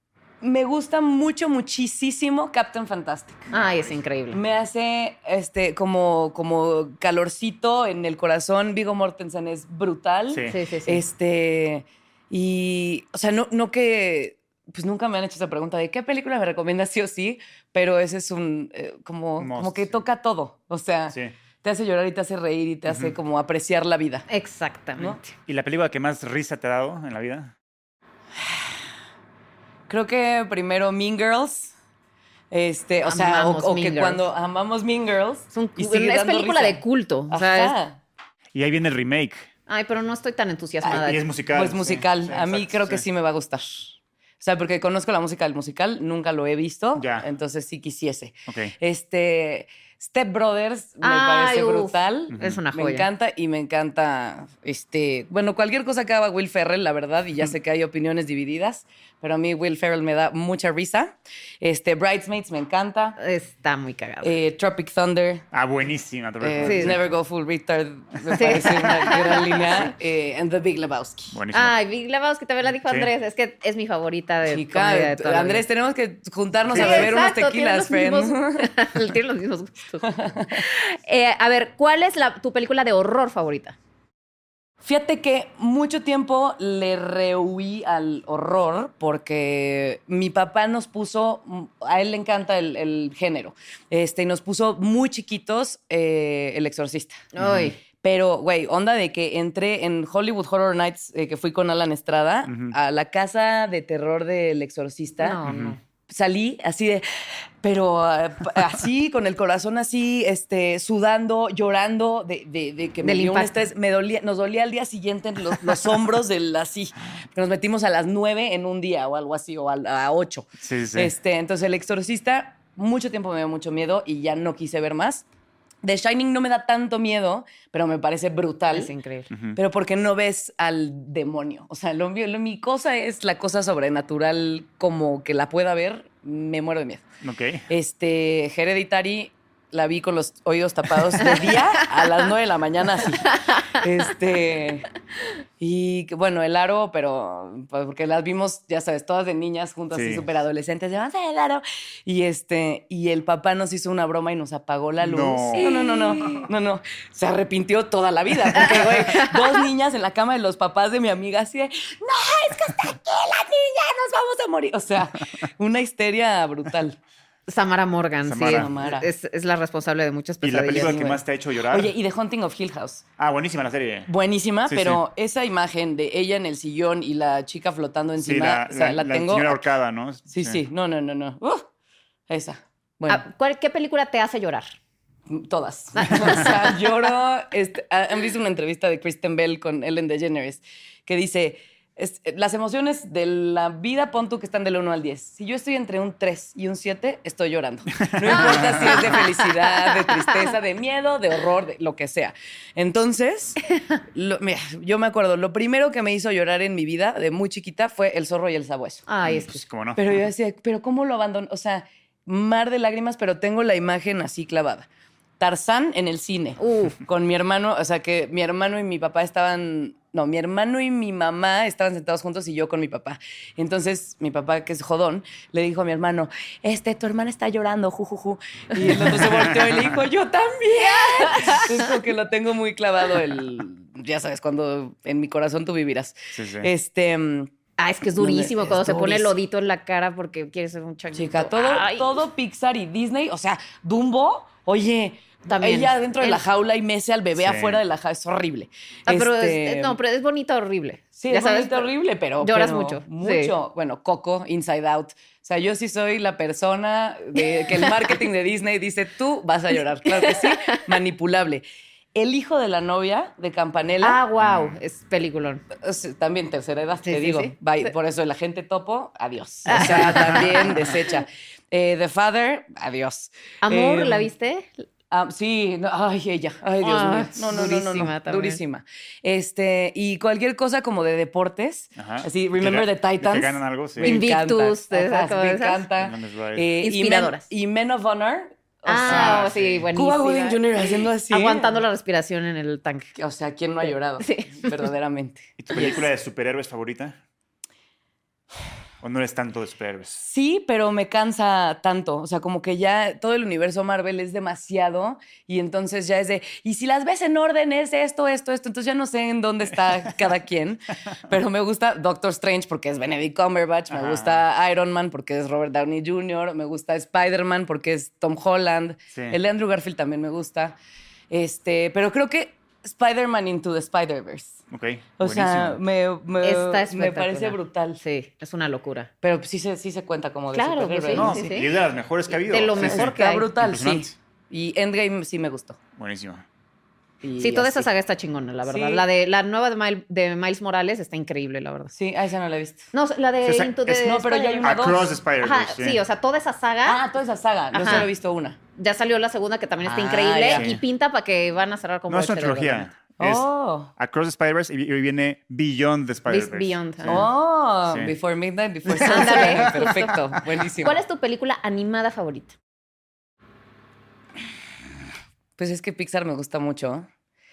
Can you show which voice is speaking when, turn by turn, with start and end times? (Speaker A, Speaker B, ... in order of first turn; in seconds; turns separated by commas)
Speaker A: 0.4-3.5, Speaker B: 3.5-4.4, Speaker A: 4.3-24.3, Speaker C: 10.3-10.6, Speaker B: 10.5-11.0, Speaker C: 19.4-20.0, Speaker C: 22.9-23.2, Speaker B: 24.3-25.3, Speaker C: 25.5-27.5, Speaker A: 28.4-28.8, Speaker A: 29.9-31.7, Speaker A: 32.5-38.0, Speaker B: 33.0-34.2, Speaker B: 35.5-37.8, Speaker C: 38.5-39.5, Speaker B: 39.7-41.2, Speaker A: 40.8-63.2, Speaker C: 40.9-43.0, Speaker C: 47.0-47.3, Speaker C: 48.5-48.7, Speaker B: 51.0-53.1, Speaker C: 52.3-52.6, Speaker B: 63.2-64.4, Speaker A: 64.2-65.5, Speaker C: 65.5-67.0, Speaker A: 66.4-71.4, Speaker B: 66.6-66.9, Speaker B: 68.3-69.9, Speaker C: 71.3-71.8, Speaker B: 71.5-75.7, Speaker C: 72.8-73.1, Speaker A: 74.5-78.7, Speaker C: 76.7-77.1, Speaker B: 76.7-83.8, Speaker A: 80.0-80.6, Speaker A: 84.8-97.2, Speaker B: 97.3-97.8, Speaker C: 97.4-97.7, Speaker A: 98.0-105.4, Speaker C: 102.5-102.7, Speaker B: 105.2-105.8, Speaker C: 105.5-105.8, Speaker A: 106.1-125.3, Speaker B: 113.0-113.5, Speaker C: 120.6-121.1, Speaker A: 125.8-128.9, Speaker B: 128.7-129.3, Speaker C: 129.3-129.6, Speaker A: 129.6-137.1, Speaker C: 137.2-137.7, Speaker A: 137.7-144.9, Speaker B: 143.3-143.7, Speaker A: 145.6-167.0, Speaker C: 149.9-150.3, Speaker C: 155.0-155.7, Speaker B: 155.6-156.5, Speaker B: 158.6-159.6, Speaker B: 167.5-171.2, Speaker C: 168.3-168.7, Speaker A: 168.4-169.1, Speaker C: 170.4-171.9, Speaker A: 170.8-171.0, Speaker A: 171.7-173.0, Speaker C: 173.2-174.1, Speaker A: 174.1-179.6, Speaker C: 174.7-175.0, Speaker C: 178.2-180.6, Speaker A: 180.3-181.7, Speaker A: 182.3-183.2, Speaker B: 183.1-184.8, Speaker A: 185.3-209.1, Speaker B: 186.0-186.8, Speaker C: 198.0-199.0, Speaker B: 198.3-200.5, Speaker B: 209.1-209.6, Speaker C: 209.2-210.1, Speaker A: 210.0-214.9, Speaker A: 215.4-237.5, Speaker B: 216.6-217.0, Speaker C: 228.9-230.0, Speaker B: 230.9-231.9, Speaker C: 236.3-236.7, Speaker B: 237.8-242.2, Speaker A: 238.2-239.3, Speaker A: 241.1-250.0, Speaker B: 245.5-246.4, Speaker C: 247.4-247.8, Speaker B: 249.1-253.5, Speaker A: 251.2-264.2, Speaker B: 257.4-258.2, Speaker B: 260.1-260.9, Speaker B: 264.0-265.6, Speaker C: 264.4-264.8, Speaker A: 265.7-274.3, Speaker B: 267.1-267.9, Speaker B: 269.7-270.9, Speaker B: 273.6-274.9, Speaker A: 275.1-291.8, Speaker B: 276.8-278.6, Speaker C: 282.0-284.2, Speaker B: 284.0-285.9, Speaker C: 286.0-286.7, Speaker B: 286.8-287.4, Speaker B: 288.9-293.1, Speaker C: 289.1-289.9, Speaker A: 293.1-295.9, Speaker B: 293.8-294.9, Speaker C: 295.6-297.2, Speaker B: 295.8-296.0, Speaker C: 299.0-300.2, Speaker A: 300.2-320.8, Speaker C: 313.9-314.4, Speaker C: 319.1-319.4, Speaker A: 321.3-324.6, Speaker C: 324.7-325.8, Speaker A: 325.2-328.0, Speaker B: 326.4-329.1, Speaker A: 329.2-331.6, Speaker B: 330.5-331.8, Speaker C: 331.1-334.1, Speaker B: 332.3-333.5, Speaker A: 332.8-335.8, Speaker C: 336.0-336.4, Speaker A: 337.2-337.9, Speaker B: 337.4-341.9, Speaker A: 338.7-339.1, Speaker A: 341.9-342.9, Speaker B: 342.9-347.0, Speaker C: 343.4-343.8, Speaker A: 343.9-345.2, Speaker C: 344.6-346.0, Speaker A: 346.9-348.6, Speaker B: 347.7-348.1, Speaker B: 348.8-352.9, Speaker A: 349.8-350.8, Speaker C: 350.5-350.8, Speaker C: 352.1-357.3, Speaker A: 353.2-353.9, Speaker B: 356.3-357.2, Speaker A: 357.0-361.0, Speaker C: 357.9-358.1, Speaker C: 358.9-360.0, Speaker B: 359.0-362.6, Speaker A: 365.6-367.1